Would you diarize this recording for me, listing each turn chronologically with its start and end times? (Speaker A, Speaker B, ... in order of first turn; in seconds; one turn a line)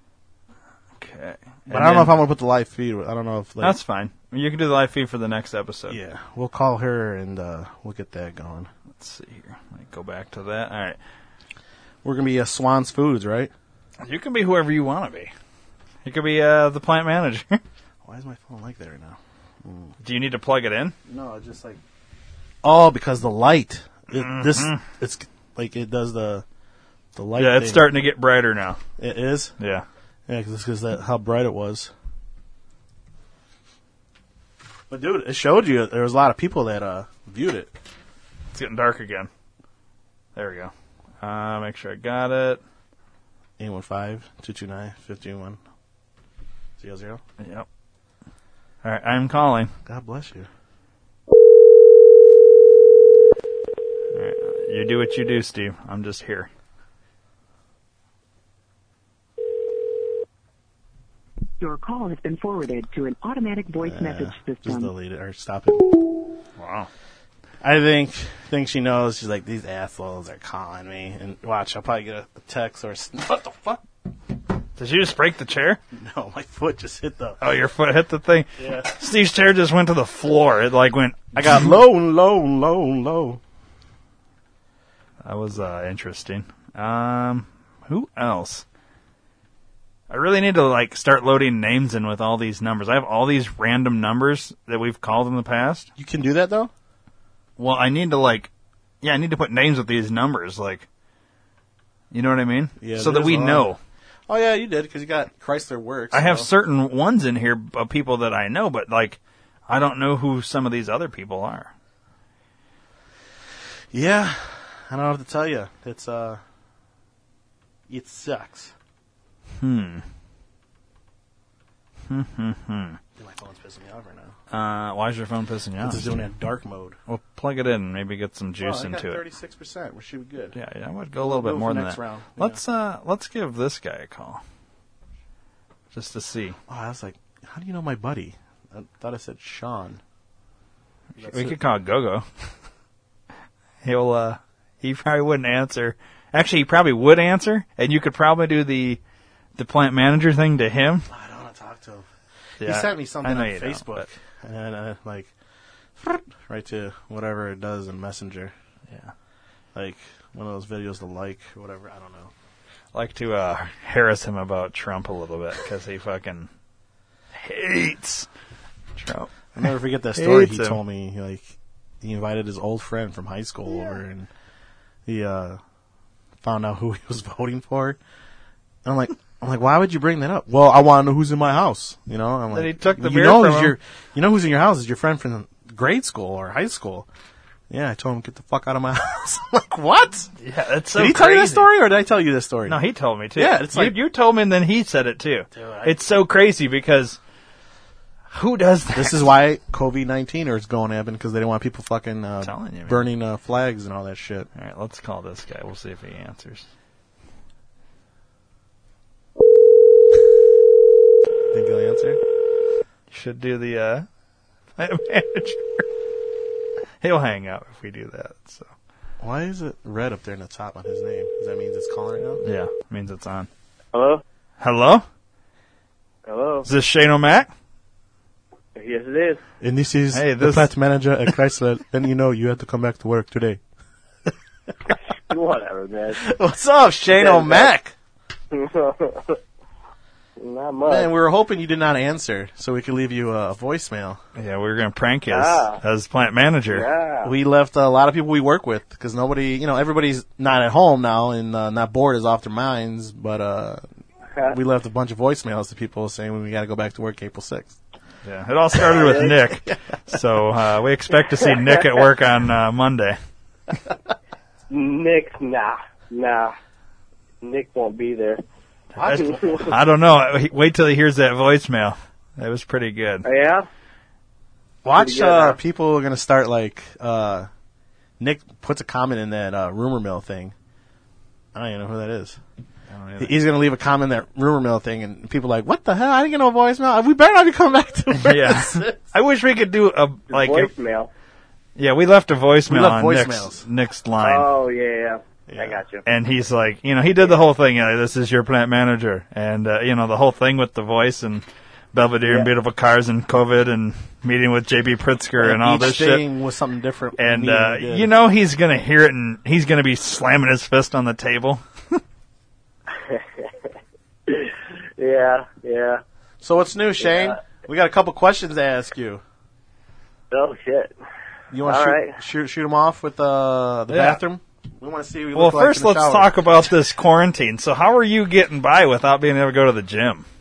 Speaker A: 1.0-2.1
Speaker B: 1.7-3.8
Speaker A: 3.6-6.0
Speaker B: 5.9-8.7
Speaker A: 9.0-11.0
Speaker B: 12.0-13.5
Speaker A: 14.0-15.3
Speaker A: 16.0-17.6
Speaker B: 18.0-19.9
Speaker A: 20.0-20.9
Speaker B: 21.1-21.8
Speaker B: 22.6-26.4
Speaker A: 24.1-24.8
Speaker B: 27.1-27.9
Speaker A: 27.4-28.8
Speaker B: 29.0-29.5
Speaker A: 29.6-29.8
Speaker B: 30.3-31.9
Speaker B: 34.9-37.7
Speaker A: 38.5-39.3
Speaker A: 40.4-42.6
Speaker B: 43.6-45.6
Speaker B: 46.8-47.2
Speaker A: 47.4-47.6
Speaker A: 48.8-49.7
Speaker B: 49.9-50.5
Speaker A: 54.1-56.5
Speaker C: 61.6-64.9
Speaker B: 63.8-66.0
Speaker A: 66.6-66.9
Speaker B: 67.6-73.8
Speaker A: 74.8-75.8
Speaker B: 75.9-77.4
Speaker A: 77.4-81.5
Speaker B: 78.6-78.9
Speaker B: 81.3-83.4
Speaker A: 85.2-88.6
Speaker A: 90.1-95.9
Speaker B: 96.0-96.7
Speaker A: 97.6-98.5
Speaker A: 99.0-100.9
Speaker A: 102.1-103.8
Speaker B: 102.8-103.7
Speaker B: 104.3-106.5
Speaker A: 106.1-111.7
Speaker B: 113.9-116.4
Speaker B: 117.9-118.7
Speaker A: 119.6-120.0
Speaker A: 122.1-123.0
Speaker B: 123.2-124.3
Speaker A: 124.5-126.0
Speaker B: 125.8-127.0
Speaker A: 127.1-129.2
Speaker B: 128.6-130.6
Speaker A: 130.5-134.4
Speaker B: 131.2-132.6
Speaker A: 135.9-136.6
Speaker B: 136.7-140.0
Speaker B: 141.2-141.6
Speaker A: 141.2-142.2
Speaker A: 143.8-149.0
Speaker A: 149.6-151.1
Speaker B: 151.1-152.1
Speaker B: 152.6-155.3
Speaker A: 152.6-154.0
Speaker B: 156.0-158.5
Speaker B: 159.7-162.3
Speaker A: 162.9-166.5
Speaker A: 167.3-168.3
Speaker A: 169.0-169.6
Speaker B: 169.5-174.3
Speaker A: 170.2-170.8
Speaker B: 175.1-175.6
Speaker B: 176.4-178.0
Speaker B: 178.8-187.1
Speaker A: 182.5-183.8
Speaker B: 187.7-190.3
Speaker A: 190.4-191.7
Speaker B: 190.9-192.8
Speaker A: 192.7-197.2
Speaker B: 193.3-193.9
Speaker B: 195.5-196.0
Speaker A: 198.3-199.3
Speaker B: 198.9-204.5
Speaker A: 202.4-203.0
Speaker A: 204.6-206.7
Speaker B: 211.5-212.2
Speaker A: 213.1-214.1
Speaker A: 214.8-215.8
Speaker A: 217.0-218.7
Speaker B: 219.2-222.4
Speaker A: 222.4-223.5
Speaker D: 223.9-224.2
Speaker A: 224.6-225.0
Speaker D: 226.2-226.7
Speaker A: 226.6-227.5
Speaker D: 228.7-229.4
Speaker B: 229.6-233.6
Speaker A: 230.1-230.7
Speaker D: 235.3-236.2
Speaker B: 236.2-237.9
Speaker D: 237.1-237.7
Speaker D: 238.5-239.4
Speaker D: 240.4-241.1
Speaker B: 240.8-244.2
Speaker A: 244.3-246.9
Speaker D: 245.3-245.8
Speaker D: 246.7-247.3
Speaker B: 247.2-253.8
Speaker B: 254.5-257.8
Speaker A: 258.2-263.2
Speaker B: 258.9-259.1
Speaker D: 259.0-259.3
Speaker D: 261.5-261.8
Speaker D: 264.7-266.5
Speaker D: 267.4-268.4
Speaker B: 268.9-269.6
Speaker A: 269.1-273.2
Speaker D: 269.1-269.7
Speaker D: 273.2-273.7
Speaker B: 274.8-277.5
Speaker D: 274.9-275.6
Speaker B: 278.2-280.5
Speaker B: 281.5-282.4
Speaker A: 282.9-283.3
Speaker B: 283.2-289.0
Speaker A: 288.2-290.7
Speaker D: 290.3-291.1
Speaker A: 291.8-294.5
Speaker B: 292.7-293.6
Speaker D: 294.2-296.0
Speaker B: 295.5-295.8
Speaker A: 296.1-306.2
Speaker B: 305.4-308.1
Speaker A: 307.2-312.0
Speaker D: 312.9-313.7
Speaker D: 314.3-316.0
Speaker B: 316.4-319.2
Speaker D: 317.0-317.4
Speaker D: 320.3-320.9
Speaker B: 321.5-326.3
Speaker D: 321.6-322.2
Speaker A: 323.9-324.2
Speaker A: 325.3-330.2